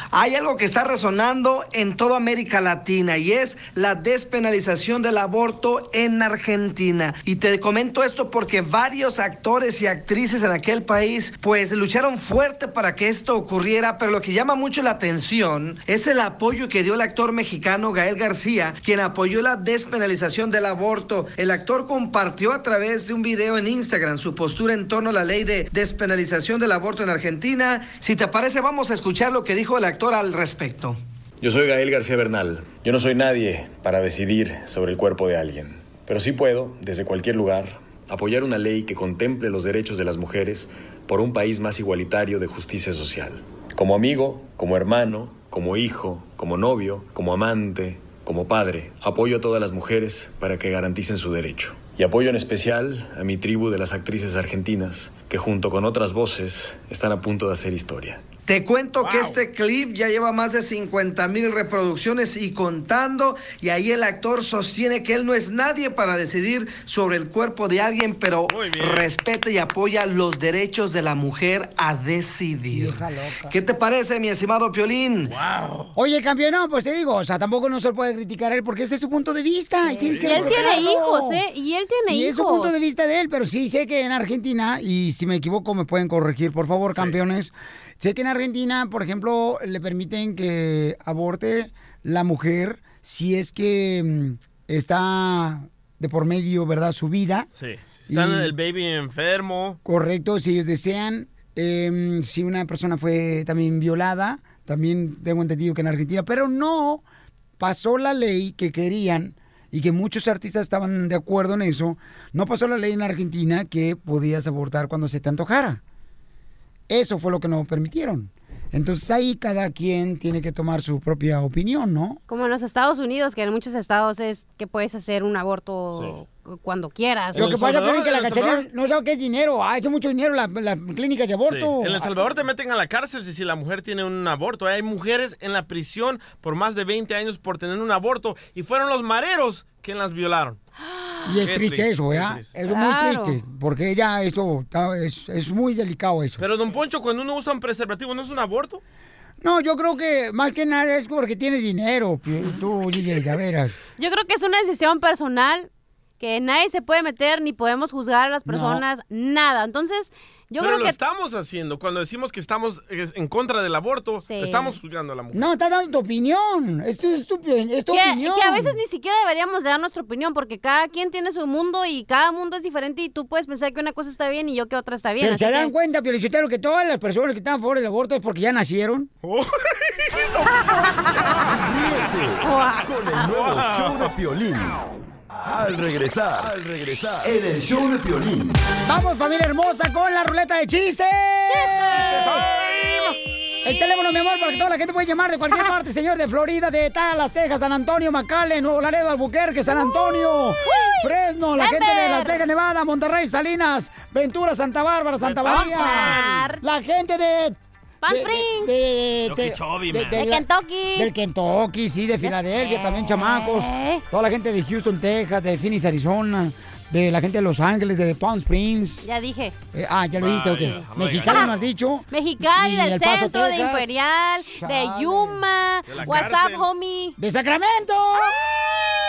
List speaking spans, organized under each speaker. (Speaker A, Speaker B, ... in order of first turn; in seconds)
Speaker A: 0.1-31.0, 58.5-75.3
Speaker B: 31.4-58.2
Speaker C: 59.0-59.4, 68.5-69.1, 75.3-75.9, 80.0-80.7, 97.5-99.8, 127.3-128.7, 131.4-140.6, 141.4-142.5, 146.4-148.8, 160.6-165.5, 179.2-180.4, 183.2-184.1, 192.0-193.2, 205.2-206.5, 209.2-210.2, 220.2-221.6, 225.9-226.7
Speaker D: 72.7-73.6, 76.0-81.4, 82.1-97.5, 98.1-98.5, 99.8-107.0, 107.6-115.8, 116.9-122.2, 127.3-132.1, 141.2-146.5, 149.4-153.8, 158.5-158.8, 165.3-168.8, 175.2-179.1, 188.8-192.4, 193.6-219.1, 219.7-223.9, 224.5-225.4, 227.2-228.4
Speaker E: 79.9-82.7, 122.3-127.5, 140.9-141.2, 142.7-143.4, 154.0-155.7, 156.2-161.0, 164.2-164.8, 167.9-175.7, 182.4-182.9, 191.5-192.4, 200.6-202.4, 205.4-206.6, 208.0-208.7, 210.1-211.1, 212.2-214.0, 219.0-219.6, 221.2-221.5, 222.1-227.2
Speaker F: 181.5-184.8, 185.4-188.6